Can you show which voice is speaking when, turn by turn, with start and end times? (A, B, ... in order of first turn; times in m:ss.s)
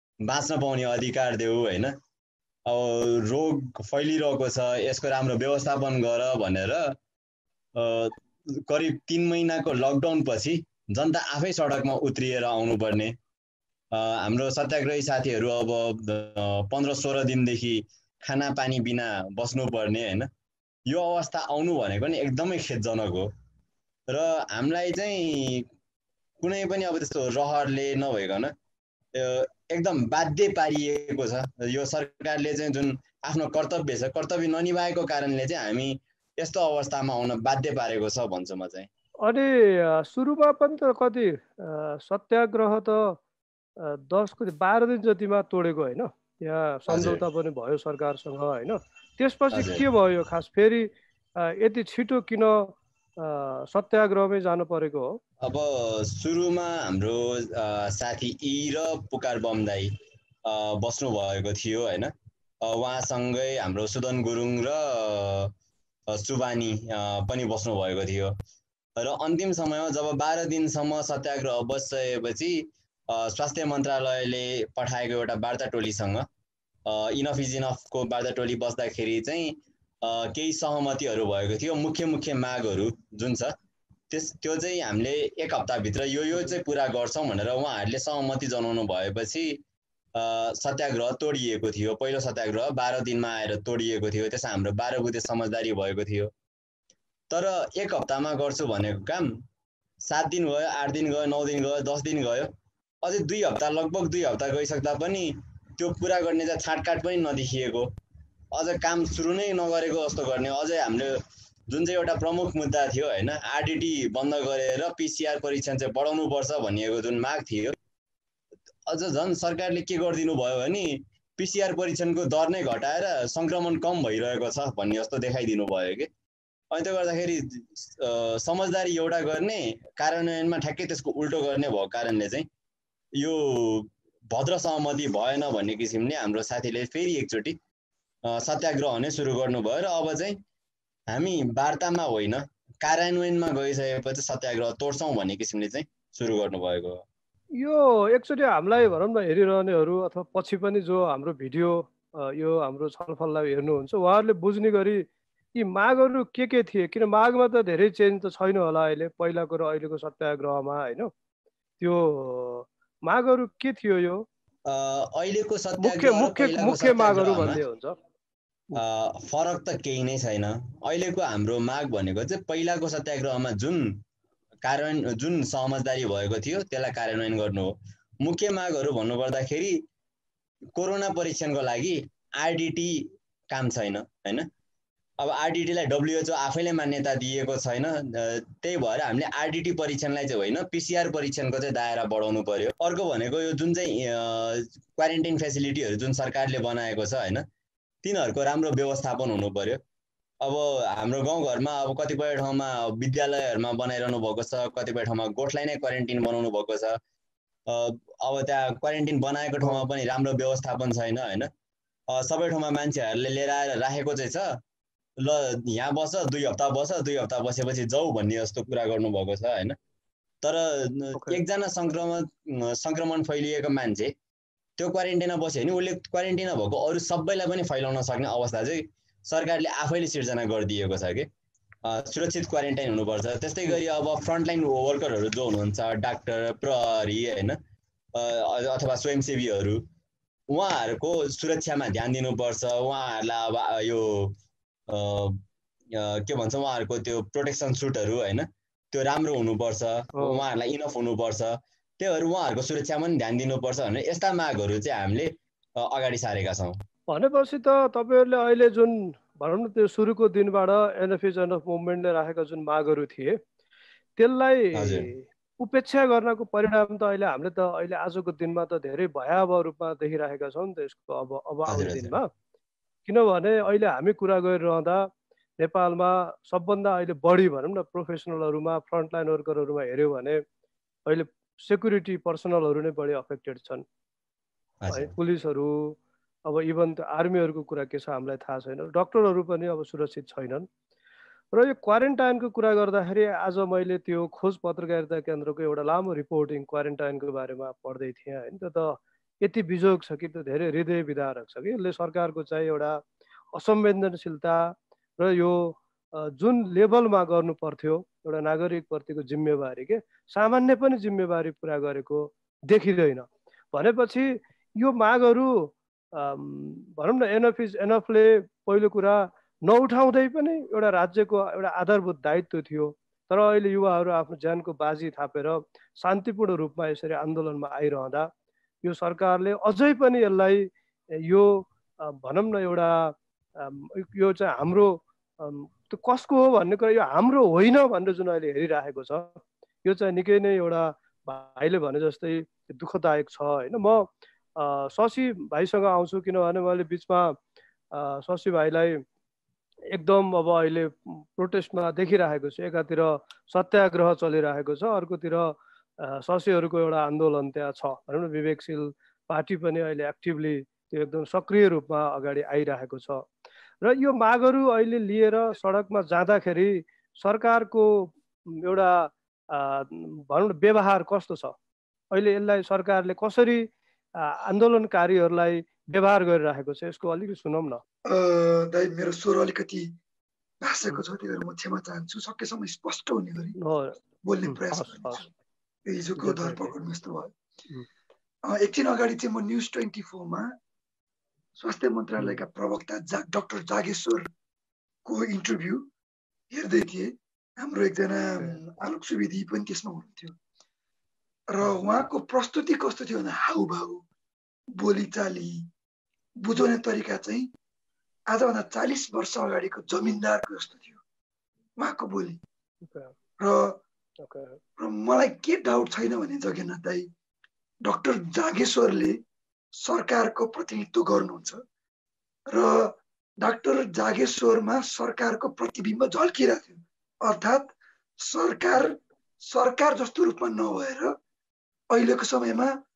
0:00.2-0:01.9 A
0:02.7-0:07.0 A
0:07.7-0:13.2 A
0:13.9-0:20.3 A
0:20.9-0:23.3 A
0:24.1-0:25.6 A
0:26.4-0:28.5 A
0:29.1-0:38.9 A
0:39.2-0:43.2 B
0:43.8-0:55.2 B
0:46.9-0:47.2 A
0:49.5-0:49.8 A
0:55.4-0:59.9 A
1:00.4-1:02.1 A
1:02.6-1:05.5 A
1:06.1-1:08.3 A
1:09.0-1:16.3 A
1:16.8-1:23.6 A
1:24.1-1:29.6 A
1:30.1-1:36.3 A
1:37.3-1:39.4 A
1:40.0-1:42.5 A
1:43.0-1:47.9 A
1:48.5-1:51.2 A
1:51.7-1:57.8 A
1:58.9-2:06.1 A
2:06.7-2:12.5 A
2:13.2-2:17.6 A
2:18.2-2:20.4 A
2:21.1-2:27.0 A
2:27.6-2:41.1 B
2:41.8-2:44.2 B
2:44.7-2:47.6 A
2:45.8-2:48.0 B
2:48.8-2:54.0 A
2:54.6-2:59.8 A
3:00.7-3:04.5 A
3:05.2-3:17.4 A
3:18.0-3:19.8 A
3:20.4-3:27.0 A
3:27.7-3:31.5 A
3:32.1-3:34.6 A
3:35.2-3:39.8 A
3:40.4-3:44.1 A
3:41.1-3:41.4 B
3:44.8-3:51.3 A
3:51.8-3:57.6 A
3:58.1-3:59.8 A
4:00.5-4:04.4 A
4:04.9-4:16.8 A
4:10.2-4:10.4 B
4:17.1-4:23.4 B
4:24.2-4:32.3 B
4:24.7-4:25.1 A
4:31.7-4:32.1 A
4:33.0-4:35.1 B
4:35.6-4:40.4 B
4:41.1-4:43.8 B
4:44.8-4:45.1 A
4:44.9-4:50.7 B
4:51.5-5:03.0 B
5:03.5-5:28.3 B
5:28.8-5:30.7 B
5:31.2-5:44.1 B
5:44.6-5:47.3 B
5:47.9-5:49.0 B
5:49.9-6:03.3 B
6:03.8-6:11.5 B
6:12.1-6:17.8 B
6:18.1-6:19.9 C
6:20.6-6:23.6 C
6:23.6-6:24.0 B
6:24.2-6:25.3 C
6:24.5-6:25.2 B
6:25.8-6:27.3 C
6:26.2-6:26.7 B
6:28.5-6:30.5 C
6:31.6-6:34.3 C
6:35.0-6:35.8 C
6:36.5-6:40.4 C
6:41.5-6:44.0 C
6:44.8-6:45.6 C
6:46.4-6:47.5 C
6:48.3-6:51.0 C
6:51.8-6:52.4 C
6:52.8-6:53.1 B
6:53.4-6:53.8 C
6:54.2-6:54.6 B
6:54.8-6:57.1 C
6:57.8-6:59.2 C
6:59.8-7:01.6 C
7:02.5-7:11.1 C
7:11.9-7:12.7 C